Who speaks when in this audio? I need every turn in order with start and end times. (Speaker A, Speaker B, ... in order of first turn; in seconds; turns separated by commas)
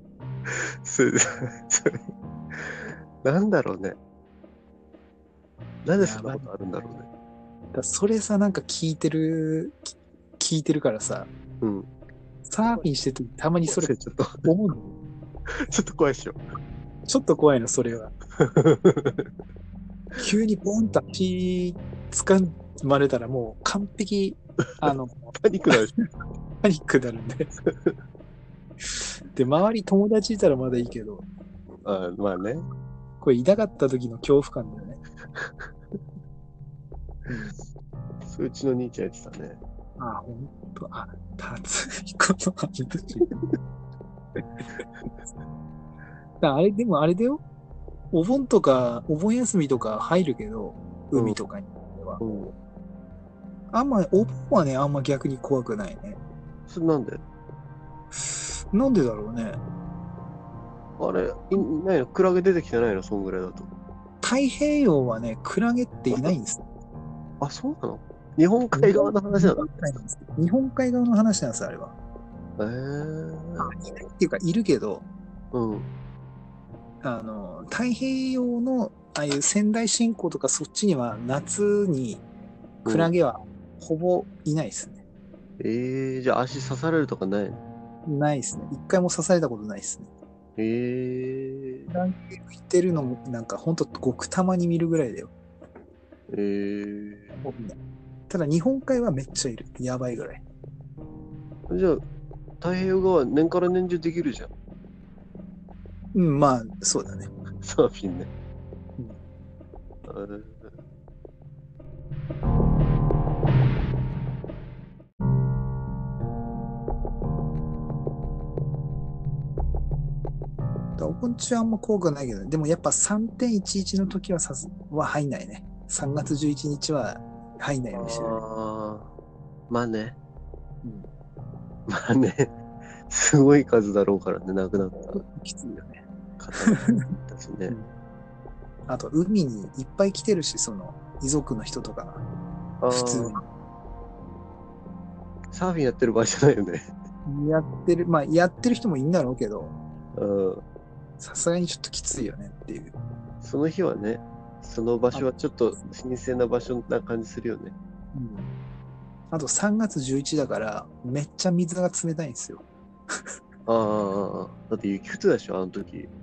Speaker A: 0.5-4.0, Speaker A: 5.8-7.1, Speaker B: 6.0-6.5, Speaker B: 7.7-11.3, Speaker A: 11.6-11.9, Speaker B: 12.5-13.9, Speaker A: 13.7-14.4, Speaker B: 14.4-15.0, Speaker A: 15.5-16.4, Speaker B: 17.1-18.1, Speaker A: 18.4-19.3, Speaker B: 20.2-26.0, Speaker A: 24.8-25.9, Speaker B: 26.6-27.5, Speaker A: 27.7-27.9, Speaker B: 29.3-31.2, Speaker A: 31.8-32.6, Speaker B: 33.2-35.0, Speaker A: 35.4-35.7, Speaker B: 37.3-37.6, Speaker A: 38.2-39.6, Speaker B: 40.0-43.3, Speaker B: 46.4-47.4, Speaker B: 48.1-52.2, Speaker A: 52.2-52.5, Speaker B: 53.7-56.2, Speaker A: 56.7-57.2, Speaker B: 58.7-59.6, Speaker A: 61.0-63.7, Speaker B: 64.2-66.7, Speaker A: 67.4-70.0, Speaker B: 68.7-72.0, Speaker A: 72.6-73.8, Speaker B: 73.6-75.0, Speaker A: 75.5-75.9, Speaker B: 77.0-82.2, Speaker A: 82.8-83.1, Speaker B: 82.9-85.0, Speaker A: 85.6-87.6, Speaker B: 88.0-90.1, Speaker A: 90.6-91.9, Speaker B: 91.9-95.3, Speaker A: 96.3-97.3, Speaker B: 97.4-97.8, Speaker B: 98.3-100.4, Speaker A: 101.7-102.0, Speaker A: 102.6-104.5, Speaker B: 106.1-107.3, Speaker A: 107.6-108.3, Speaker A: 110.0-110.8, Speaker B: 121.0-128.4, Speaker A: 127.9-129.1, Speaker A: 129.7-130.2, Speaker B: 130.8-131.1, Speaker A: 131.9-132.5, Speaker A: 133.1-135.2, Speaker B: 135.1-136.0, Speaker A: 136.4-137.8, Speaker B: 136.6-136.9, Speaker B: 138.9-142.2, Speaker A: 142.8-143.4, Speaker B: 142.9-143.4, Speaker A: 145.5-146.9, Speaker B: 147.2-149.8, Speaker A: 150.2-150.6, Speaker B: 151.2-152.9, Speaker A: 153.4-157.8, Speaker B: 158.1-158.5, Speaker B: 159.3-162.7, Speaker A: 163.7-166.1